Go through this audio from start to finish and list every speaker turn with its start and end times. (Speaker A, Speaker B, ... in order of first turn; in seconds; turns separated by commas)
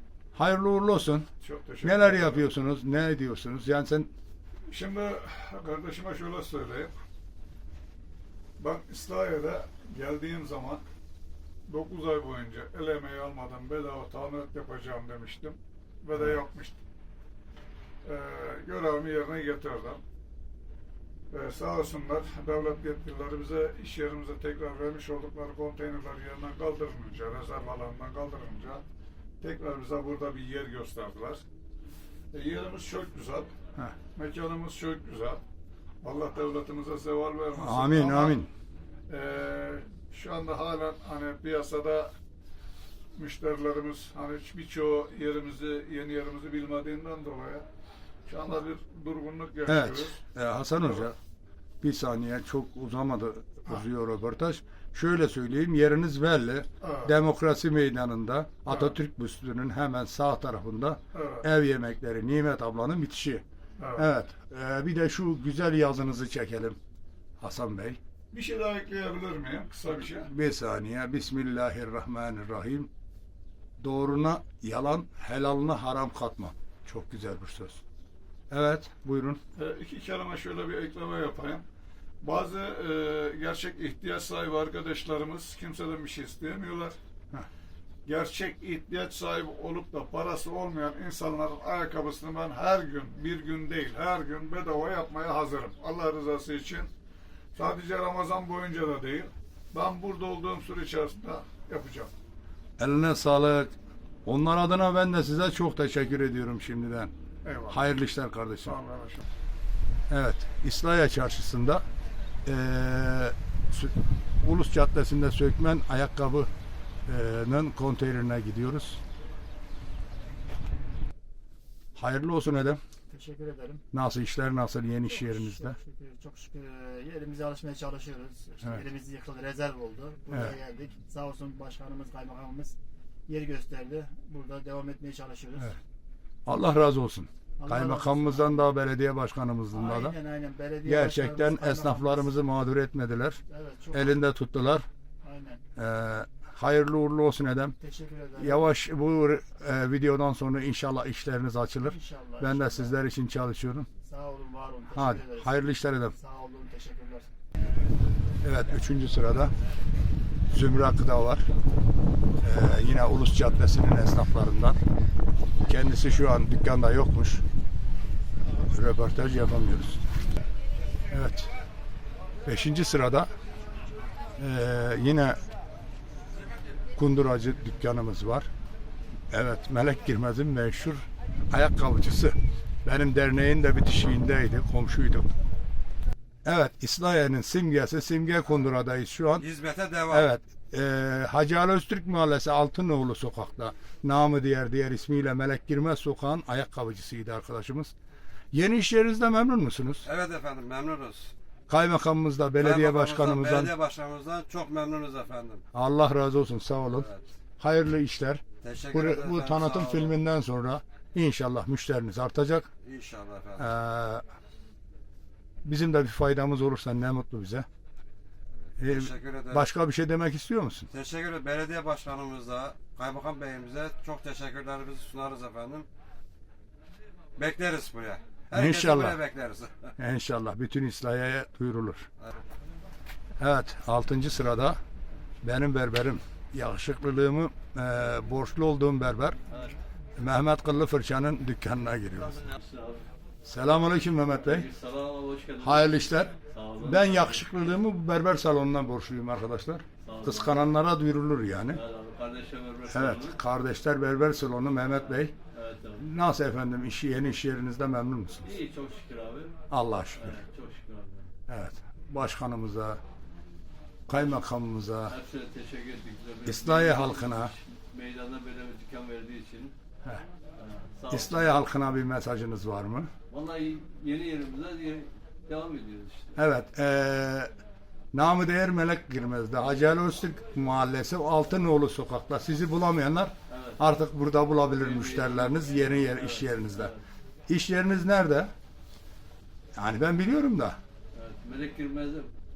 Speaker A: 0.3-1.3, Speaker B: 1.4-2.5, Speaker A: 1.8-4.1, Speaker B: 4.7-6.9, Speaker B: 8.6-10.8, Speaker B: 11.7-16.8, Speaker B: 18.0-20.0, Speaker B: 21.3-28.8, Speaker B: 29.4-31.4, Speaker B: 32.3-33.5, Speaker B: 34.1-35.4, Speaker B: 36.0-38.4, Speaker A: 37.5-38.5, Speaker B: 39.1-42.1, Speaker B: 43.1-47.7, Speaker B: 48.3-50.2, Speaker A: 49.7-51.2, Speaker B: 50.8-51.1, Speaker A: 51.8-63.4, Speaker B: 56.8-57.2, Speaker B: 58.7-59.0, Speaker B: 61.1-61.5, Speaker B: 63.8-64.1, Speaker A: 64.0-66.8, Speaker A: 67.4-68.0, Speaker B: 68.3-70.3, Speaker A: 70.0-72.9, Speaker A: 73.8-77.8, Speaker A: 78.5-79.4, Speaker B: 79.5-81.7, Speaker B: 82.2-87.0, Speaker B: 88.1-96.9, Speaker B: 97.5-102.1, Speaker A: 102.8-107.1, Speaker B: 107.5-107.9, Speaker A: 107.7-108.8, Speaker B: 108.7-109.2, Speaker A: 110.1-111.8, Speaker A: 112.5-116.5, Speaker A: 117.1-119.0, Speaker A: 122.0-122.8, Speaker C: 123.1-123.8, Speaker A: 123.9-125.8, Speaker C: 125.1-132.8, Speaker A: 130.3-130.6, Speaker C: 133.3-135.8, Speaker A: 136.5-140.2, Speaker C: 137.6-138.7, Speaker C: 139.7-142.3, Speaker A: 140.8-143.4, Speaker C: 143.5-144.2, Speaker A: 143.9-144.9, Speaker C: 145.2-145.6, Speaker A: 145.8-147.8, Speaker C: 147.8-148.7, Speaker A: 148.4-153.9, Speaker C: 151.8-153.0, Speaker C: 154.0-155.5, Speaker A: 154.9-156.1, Speaker C: 156.1-157.3, Speaker A: 158.4-159.5, Speaker A: 160.5-161.5, Speaker A: 162.4-164.8, Speaker A: 165.7-167.4, Speaker A: 168.7-170.1, Speaker A: 171.1-171.5, Speaker A: 172.5-173.3, Speaker A: 174.4-175.4, Speaker A: 177.0-178.5, Speaker A: 179.3-185.3, Speaker A: 186.4-189.5, Speaker D: 189.4-190.3, Speaker A: 190.1-197.9, Speaker A: 198.5-200.1, Speaker D: 200.1-201.3, Speaker A: 201.7-203.7, Speaker D: 202.6-205.6, Speaker A: 205.7-207.1, Speaker D: 206.9-207.3, Speaker A: 207.6-212.7, Speaker D: 208.6-210.1, Speaker D: 212.8-213.7, Speaker A: 213.6-214.2, Speaker A: 215.6-217.7, Speaker D: 218.8-219.6, Speaker A: 218.8-220.9, Speaker D: 220.9-225.9, Speaker D: 227.4-229.9, Speaker A: 228.5-229.2, Speaker A: 230.0-232.1, Speaker A: 233.4-234.8, Speaker A: 235.4-239.4, Speaker E: 239.5-239.8, Speaker A: 240.2-242.4, Speaker E: 242.2-243.1, Speaker A: 243.4-244.7, Speaker E: 244.4-247.5, Speaker A: 245.6-251.8, Speaker E: 250.0-250.6, Speaker E: 251.7-253.4, Speaker A: 252.9-255.3, Speaker E: 255.5-256.1, Speaker A: 256.0-258.5, Speaker E: 258.4-259.6, Speaker A: 259.7-260.4, Speaker E: 260.1-261.3, Speaker A: 261.5-263.0, Speaker A: 264.1-265.1, Speaker E: 265.1-269.7, Speaker A: 266.4-267.5, Speaker E: 270.6-271.5, Speaker A: 271.1-273.1, Speaker E: 273.3-276.4, Speaker A: 276.4-277.6, Speaker A: 278.1-286.9, Speaker E: 283.5-283.8, Speaker E: 284.7-287.0, Speaker A: 287.5-288.5, Speaker A: 289.8-290.8, Speaker E: 291.1-292.3